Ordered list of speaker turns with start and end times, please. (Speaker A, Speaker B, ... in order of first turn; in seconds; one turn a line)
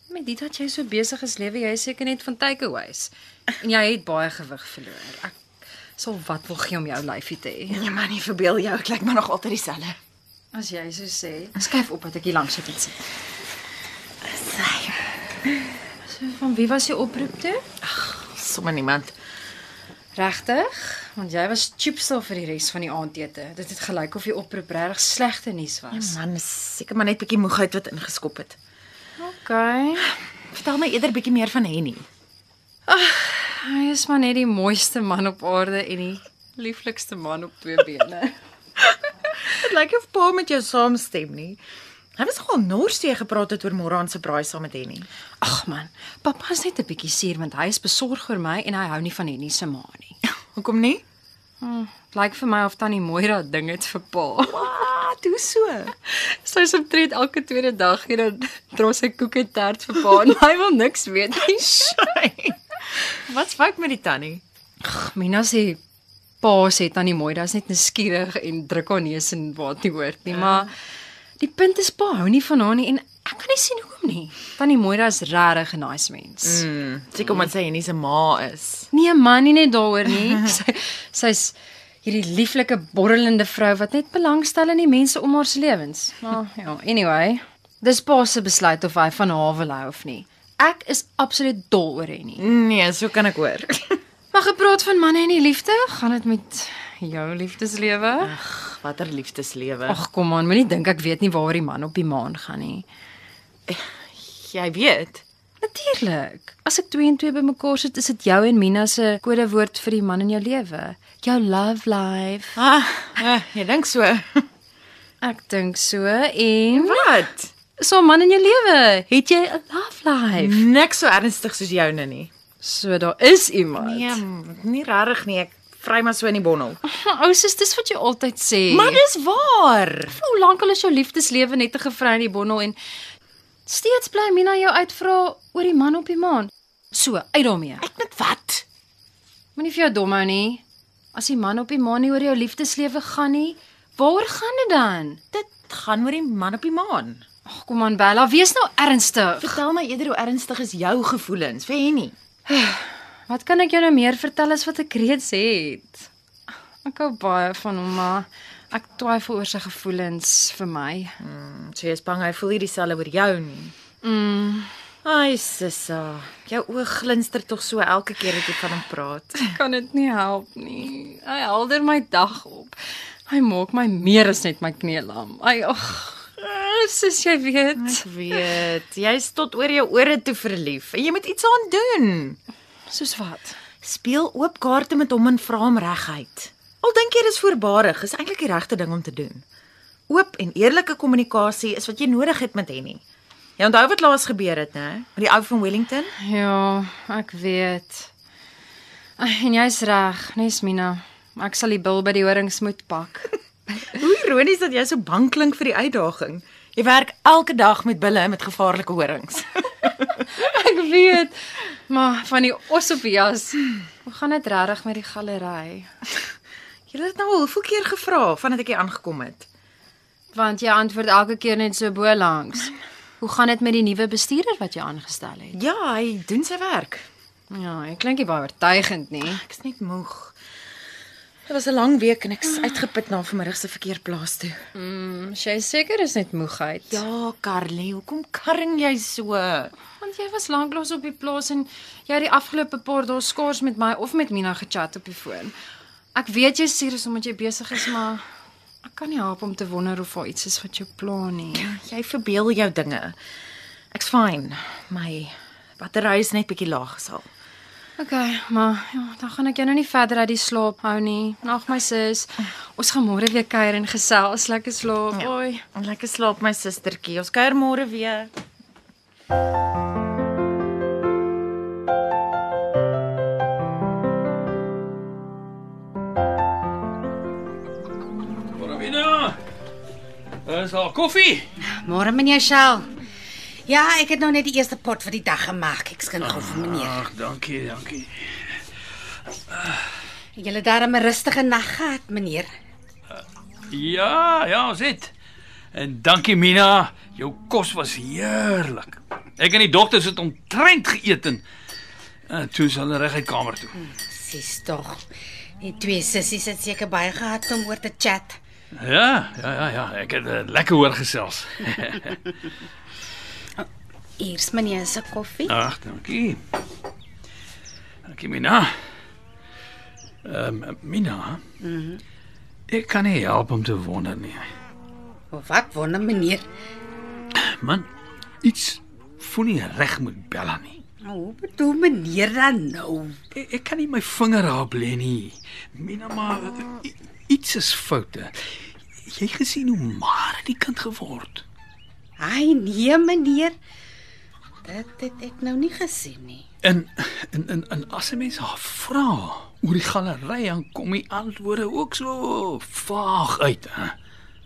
Speaker A: 0.1-5.4
Speaker A: 6.0-7.8
Speaker B: 7.7-10.0
Speaker A: 10.5-13.0
Speaker B: 14.3-15.0
Speaker A: 16.1-17.6
Speaker B: 17.8-19.1
Speaker A: 20.1-26.2
Speaker B: 25.9-28.6
Speaker A: 29.2-30.1
Speaker B: 30.5-32.0
Speaker A: 32.9-38.3
Speaker B: 39.4-41.6
Speaker B: 42.2-45.0
Speaker A: 45.4-50.2
Speaker B: 50.5-51.0
Speaker A: 51.6-54.6
Speaker B: 54.5-55.9
Speaker A: 56.1-62.0
Speaker B: 61.6-62.5
Speaker B: 63.2-64.4
Speaker A: 64.8-65.8
Speaker A: 66.4-70.7
Speaker B: 70.3-70.7
Speaker A: 71.4-76.6
Speaker B: 76.4-78.9
Speaker A: 78.9-92.4
Speaker B: 92.4-94.0
Speaker A: 94.3-98.3
Speaker B: 98.2-100.0
Speaker A: 99.9-102.8
Speaker B: 103.7-105.2
Speaker A: 105.6-112.5
Speaker B: 112.5-114.5
Speaker A: 115.2-117.1
Speaker B: 116.7-117.5
Speaker A: 117.8-120.6
Speaker B: 120.4-122.3
Speaker A: 122.6-124.2
Speaker B: 123.8-126.8
Speaker A: 126.8-129.0
Speaker B: 128.7-130.2
Speaker A: 130.1-132.8
Speaker A: 133.7-137.8
Speaker B: 137.8-138.6
Speaker A: 139.6-140.6
Speaker A: 141.1-145.2
Speaker B: 145.3-147.2
Speaker A: 147.5-149.6
Speaker B: 149.4-152.1
Speaker A: 152.5-156.1
Speaker A: 156.8-161.2
Speaker B: 161.2-163.7
Speaker A: 164.0-164.7
Speaker B: 165.0-169.5
Speaker A: 169.5-172.8
Speaker A: 173.3-178.0
Speaker B: 177.8-182.4
Speaker A: 182.9-183.6
Speaker B: 183.8-189.4
Speaker B: 190.1-193.0
Speaker B: 193.6-196.1
Speaker A: 196.2-198.1
Speaker A: 199.2-203.3
Speaker B: 203.9-209.9
Speaker A: 210.3-215.9
Speaker B: 216.9-219.5
Speaker A: 220.3-225.6
Speaker B: 225.5-227.1
Speaker A: 227.5-229.4
Speaker B: 229.2-230.3
Speaker B: 231.5-234.6
Speaker A: 234.7-237.0
Speaker B: 236.9-239.7
Speaker A: 240.0-245.5
Speaker A: 246.1-248.2
Speaker A: 248.8-251.7
Speaker B: 251.6-253.2
Speaker B: 253.9-257.3
Speaker A: 258.0-265.6
Speaker B: 265.1-268.3
Speaker C: 278.5-279.4
Speaker C: 280.4-281.5
Speaker D: 281.8-282.8
Speaker D: 283.7-287.0
Speaker C: 286.2-288.6
Speaker C: 289.5-289.8
Speaker D: 290.4-292.5
Speaker C: 293.7-295.1
Speaker C: 295.7-301.4
Speaker C: 302.3-303.7
Speaker D: 303.8-305.0
Speaker D: 305.6-308.4
Speaker C: 308.7-312.2
Speaker D: 314.2-315.5
Speaker C: 315.5-316.4
Speaker C: 318.1-318.8
Speaker C: 320.2-321.4
Speaker D: 321.6-322.0
Speaker C: 322.7-324.4
Speaker D: 325.3-326.4
Speaker C: 327.4-327.9
Speaker C: 328.4-330.8
Speaker D: 331.0-333.2
Speaker C: 333.3-338.4
Speaker C: 339.1-341.4
Speaker D: 342.2-343.6
Speaker D: 344.6-346.4
Speaker C: 346.6-353.9